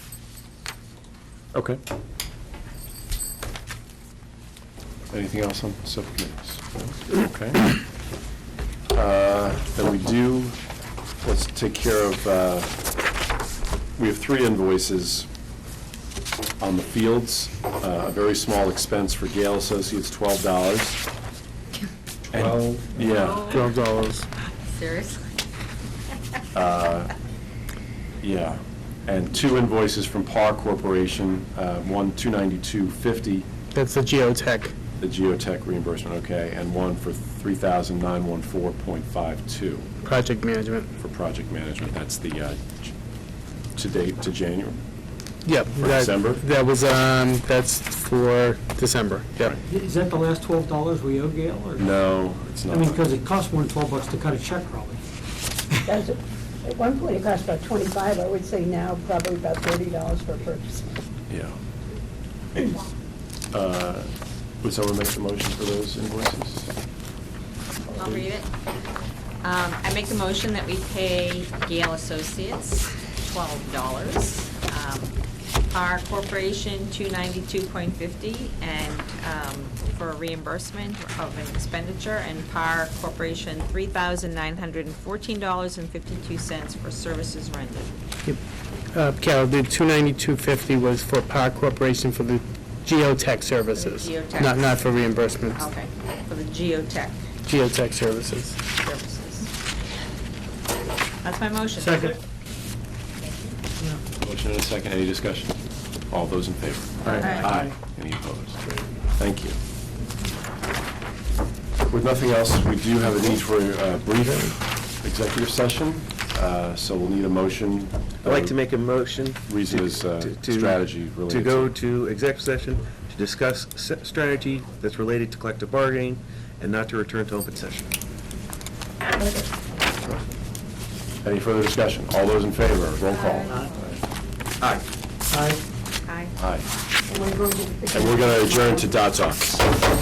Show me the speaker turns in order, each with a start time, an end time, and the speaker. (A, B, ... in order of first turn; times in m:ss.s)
0:01.5-0:01.8 A
0:05.1-0:07.8 A
0:08.9-0:10.6 A
0:11.2-0:12.7 A
0:14.0-0:15.3 A
0:16.6-0:21.0 A
0:22.3-0:23.5 A
0:23.0-0:23.7 B
0:23.5-0:24.3 C
0:24.6-0:25.4 B
0:26.5-0:27.1 A
0:28.2-0:33.5 A
0:33.7-0:34.8 C
0:35.0-0:39.9 A
0:40.0-0:40.9 C
0:41.0-0:42.9 A
0:43.8-0:44.8 A
0:45.4-0:49.6 C
0:45.7-0:46.4 A
0:49.4-0:52.0 D
0:51.8-0:53.0 A
0:52.7-0:55.1 D
0:55.9-1:01.0 E
1:01.3-1:01.6 A
1:03.5-1:06.7 A
1:07.9-1:08.5 B
1:09.4-1:15.2 B
1:15.7-1:28.0 B
1:28.9-1:35.7 C
1:33.7-1:34.9 B
1:35.6-1:37.3 B
1:37.4-1:38.6 C
1:38.7-1:39.5 B
1:41.2-1:42.2 B
1:41.8-1:42.2 D
1:43.2-1:43.6 B
1:44.2-1:48.6 A
1:47.1-1:47.7 D
1:47.1-1:47.5 B
1:49.2-1:49.6 A
1:51.9-1:58.6 A
1:58.2-2:08.0 F
1:59.5-2:01.8 A
2:11.2-2:13.7 A
2:13.0-2:13.8 B
2:13.5-2:13.8 D
2:15.3-2:15.6 D
2:16.1-2:16.3 B
2:16.4-2:16.7 A
2:17.1-2:18.9 E
2:17.9-2:19.8 A